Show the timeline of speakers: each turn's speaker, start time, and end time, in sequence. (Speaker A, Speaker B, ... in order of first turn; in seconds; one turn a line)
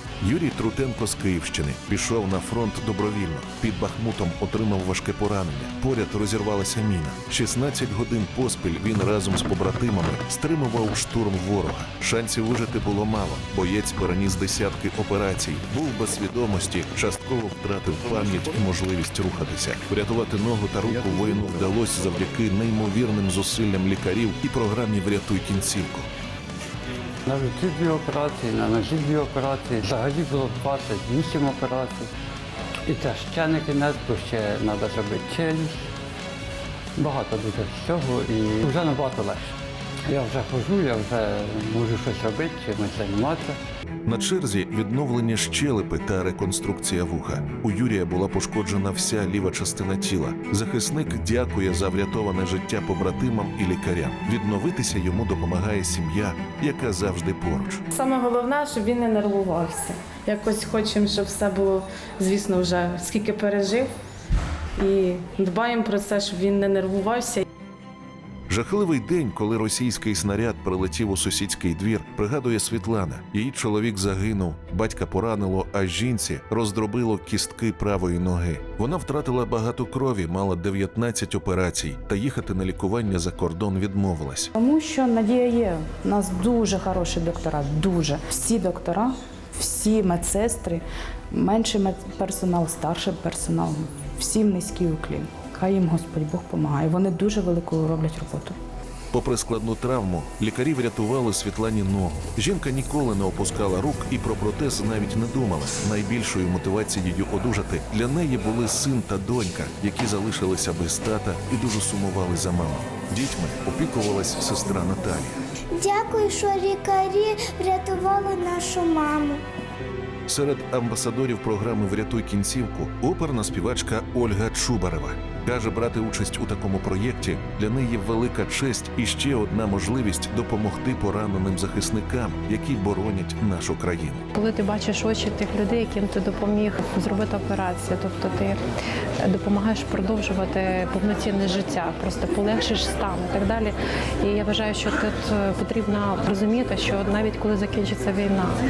Speaker A: 0.2-26.1
Speaker B: 27.2-32.1
Speaker B: 32.9-35.9
Speaker B: 37.0-39.5
Speaker B: 40.1-43.6
Speaker A: 44.0-57.8
Speaker C: 57.9-63.9
Speaker C: 64.8-67.4
Speaker A: 68.5-84.5
Speaker D: 84.5-98.6
Speaker A: 99.1-115.4
Speaker E: 115.7-119.4
Speaker A: 120.3-134.2
Speaker F: 134.3-138.6
Speaker F: 139.2-148.5